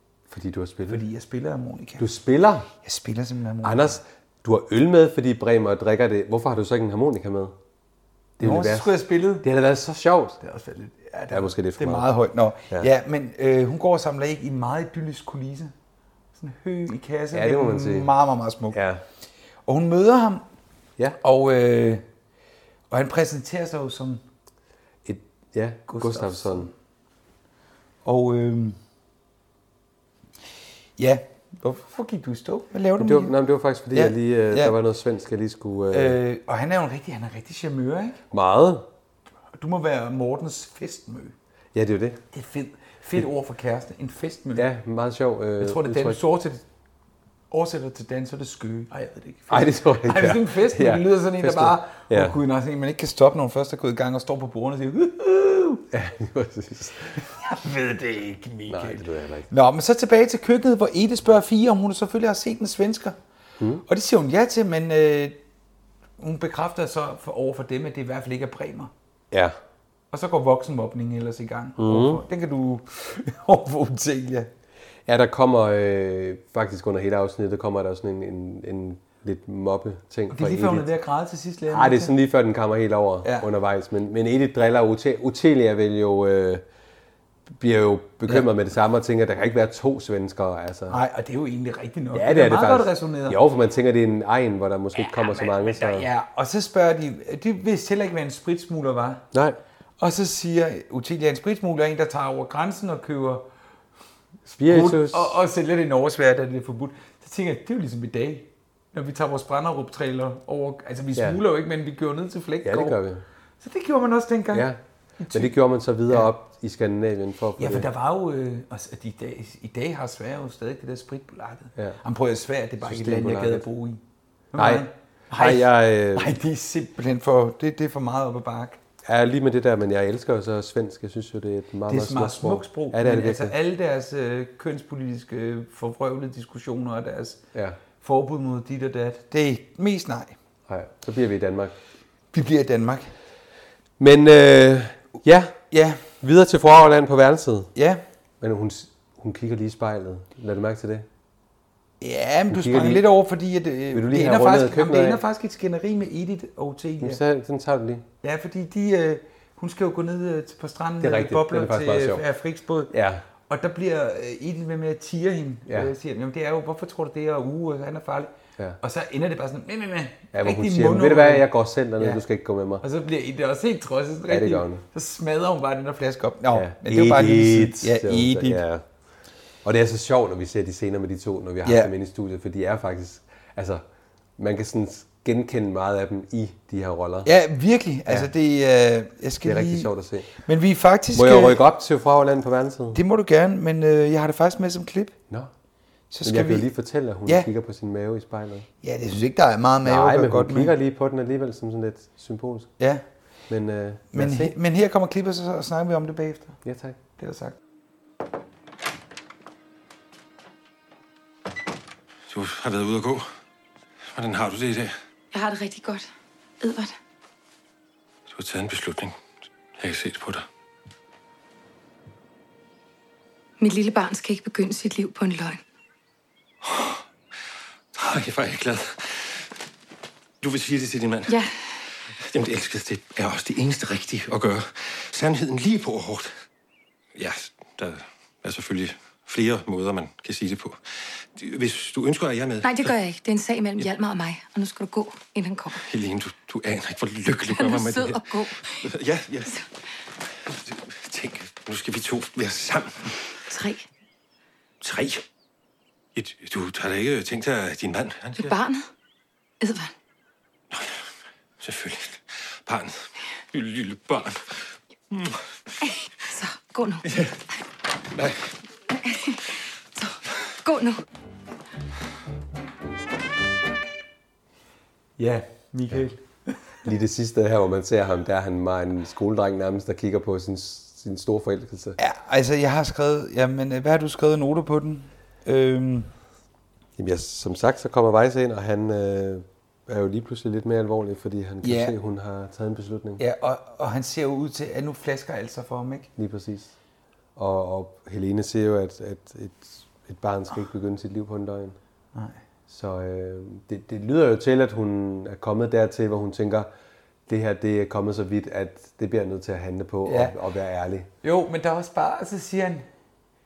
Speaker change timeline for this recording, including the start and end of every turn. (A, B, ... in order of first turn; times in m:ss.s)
0:00.3-0:01.0 A
0:00.9-0:02.0 B
0:02.0-0:02.7 A
0:02.8-0:04.0 B
0:03.6-0:07.6 A
0:08.4-0:10.4 A
0:08.4-0:09.5 B
0:10.4-0:15.7 B
0:11.3-0:12.1 A
0:16.3-0:18.8 B
0:17.3-0:18.1 A
0:18.7-0:19.0 A
0:19.6-0:20.4 B
0:21.2-0:22.0 B
0:22.9-0:24.2 B
0:25.0-0:26.7 A
0:25.9-0:26.7 B
0:28.0-0:28.8 B
0:31.0-0:33.3 B
0:33.0-0:36.2 A
0:33.9-0:34.7 B
0:35.9-0:38.2 B
0:38.3-0:38.9 A
0:39.6-0:41.3 B
0:41.7-0:42.2 A
0:42.3-0:44.6 B
0:44.6-0:46.2 A
0:45.6-0:46.6 B
0:47.5-0:55.8 B
0:49.5-0:52.4 A
0:55.9-0:57.2 A
0:57.2-1:03.2 B
0:58.7-0:59.5 A
1:03.6-1:03.8 A
1:03.8-1:05.4 B
1:06.2-1:08.9 B
1:09.3-1:09.6 A
1:10.1-1:14.5 B
1:11.8-1:12.2 A
1:15.1-1:20.9 A
1:20.3-1:22.1 B
1:21.7-1:26.6 A
1:27.6-1:31.0 A
1:30.9-1:33.4 B
1:32.1-1:36.1 A
1:35.0-1:39.2 B
1:39.3-1:39.6 A
1:40.0-1:43.4 B
1:44.4-1:45.4 A
1:44.6-1:53.0 B
1:51.1-1:51.4 A
1:52.6-1:53.2 A
1:53.6-1:54.7 B
1:54.5-1:54.8 A
1:55.2-1:56.3 B
1:55.3-1:57.9 A
1:57.6-2:04.0 B
2:02.8-2:03.6 A
2:04.5-2:08.8 B
2:04.5-2:06.4 A
2:09.0-2:13.5 A
2:11.9-2:17.4 B
2:17.5-2:17.8 A
2:18.0-2:20.4 B
2:20.7-2:21.7 A
2:22.3-2:23.1 B
2:24.0-2:25.6 A
2:25.7-2:26.0 B
2:26.1-2:27.7 A
2:27.7-2:28.0 B
2:28.4-2:31.0 A
2:32.0-2:37.2 B
2:32.5-2:33.1 A
2:33.9-2:35.2 A
2:37.0-2:38.0 A
2:38.2-2:42.9 B
2:41.0-2:42.2 A
2:42.9-2:43.2 A
2:43.5-2:52.2 B
2:50.3-2:52.8 A
2:52.8-2:58.6 B
2:54.3-2:54.8 A
2:56.5-2:58.8 A
2:59.6-3:03.8 A
3:01.6-3:01.9 B
3:04.4-3:07.3 A
3:07.2-3:11.6 B
3:09.4-3:10.3 A
3:11.1-3:13.0 A
3:12.9-3:15.2 B
3:16.1-3:16.7 B
3:16.2-3:18.6 A
3:18.8-3:20.7 B
3:19.8-3:22.7 A
3:23.5-3:24.5 A
3:24.1-3:26.6 B
3:26.6-3:27.0 A
3:27.2-3:27.6 B
3:32.3-3:33.3 C
3:34.1-3:34.9 C
3:35.3-3:36.1 D
3:36.6-3:36.9 D
3:38.3-3:39.2 C
3:39.8-3:40.4 C
3:43.6-3:45.6 D
3:46.6-3:47.0 C
3:47.9-3:49.5 C
3:50.4-3:51.4 C
3:52.2-3:56.3 C
3:57.2-4:02.9 C
4:02.6-4:05.8 D
4:05.7-4:09.6 C
4:07.4-4:08.8 D
4:10.5-4:13.2 C
4:13.5-4:13.8 D
4:14.8-4:15.2 C
4:16.1-4:18.6 C
4:18.4-4:18.9 D
4:19.6-4:19.9 D
4:20.7-4:21.0 C
4:21.6-4:25.4 C
4:26.3-4:27.0 D
4:29.0-4:29.4 D
4:30.0-4:31.0 D
4:35.2-4:36.6 B
4:36.8-4:42.0 A
4:42.0-4:46.1 B
4:47.0-4:53.2 A
4:51.6-4:51.9 B
4:53.2-4:56.1 B
4:56.2-4:56.7 A
4:57.4-5:01.8 A
5:02.1-5:02.4 B
5:02.7-5:06.7 A
5:07.3-5:11.1 A
5:10.0-5:10.3 B
5:11.2-5:12.8 B